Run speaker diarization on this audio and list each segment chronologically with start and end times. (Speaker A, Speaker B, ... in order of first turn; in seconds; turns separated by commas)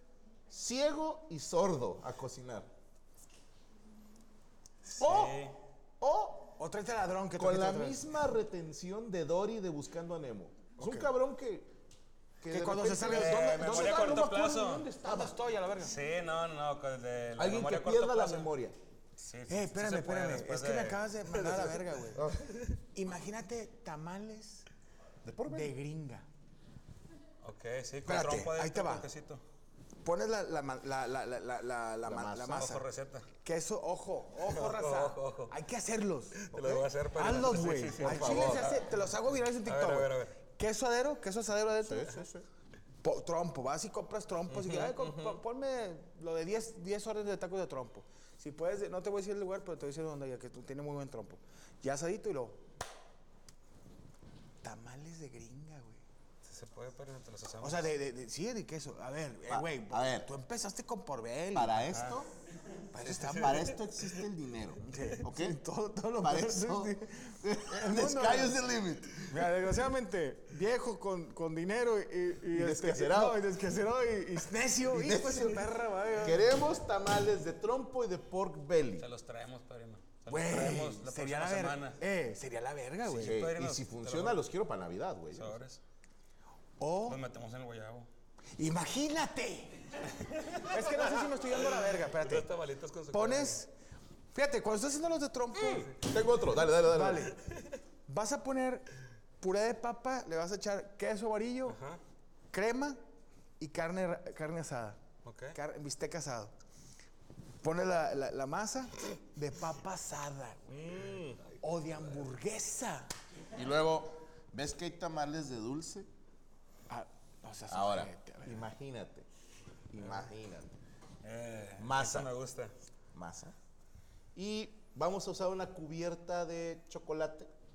Speaker A: 0.5-2.7, Speaker B: 4.9-5.6, Speaker A: 5.0-6.5, Speaker C: 6.6-8.0, Speaker A: 7.4-11.7, Speaker C: 10.8-11.1, Speaker A: 12.4-15.4, Speaker C: 12.4-14.4, Speaker B: 13.0-14.9, Speaker C: 15.0-15.9, Speaker B: 15.8-18.5, Speaker A: 17.4-18.8, Speaker B: 19.2-21.8, Speaker C: 19.5-22.2, Speaker A: 22.1-22.6, Speaker C: 22.9-24.7, Speaker A: 25.2-25.8, Speaker C: 25.5-26.3, Speaker B: 27.4-29.4, Speaker C: 28.1-29.1, Speaker C: 30.0-32.9, Speaker A: 32.0-32.7, Speaker B: 32.5-33.3, Speaker C: 33.4-42.3, Speaker B: 34.4-35.5, Speaker B: 36.4-38.9, Speaker A: 38.0-38.8, Speaker B: 39.6-40.4, Speaker A: 41.8-42.5, Speaker C: 43.0-52.6, Speaker B: 44.5-45.2, Speaker A: 45.0-45.4, Speaker C: 54.6-56.0, Speaker B: 56.5-57.9, Speaker C: 57.6-62.0, Speaker A: 59.5-60.3, Speaker A: 61.5-62.3, Speaker C: 62.9-63.7, Speaker B: 63.1-63.7, Speaker A: 63.1-65.6, Speaker C: 64.8-68.6, Speaker A: 66.2-69.5, Speaker C: 69.3-76.6, Speaker A: 72.5-73.4, Speaker A: 74.9-79.1, Speaker B: 79.0-82.0, Speaker C: 80.3-83.4, Speaker B: 83.0-84.4, Speaker A: 83.2-85.6, Speaker B: 85.3-85.8, Speaker C: 86.8-87.2, Speaker B: 87.0-88.1, Speaker C: 88.6-90.0, Speaker B: 90.2-93.6, Speaker C: 90.7-92.5, Speaker C: 93.1-93.7, Speaker C: 94.3-96.0, Speaker A: 96.0-97.3, Speaker C: 96.9-97.3, Speaker B: 97.5-97.7, Speaker C: 98.1-98.9, Speaker C: 99.4-101.8, Speaker B: 101.7-102.0, Speaker C: 102.5-103.0, Speaker C: 103.6-105.0, Speaker B: 105.2-105.6, Speaker C: 105.5-106.5, Speaker C: 107.6-110.8, Speaker A: 110.7-111.4, Speaker C: 111.6-113.1, Speaker A: 113.5-116.1, Speaker C: 116.9-118.7, Speaker A: 117.7-119.3, Speaker A: 119.9-120.7, Speaker B: 121.2-122.7, Speaker A: 121.8-122.3, Speaker A: 123.1-123.5, Speaker A: 124.3-127.5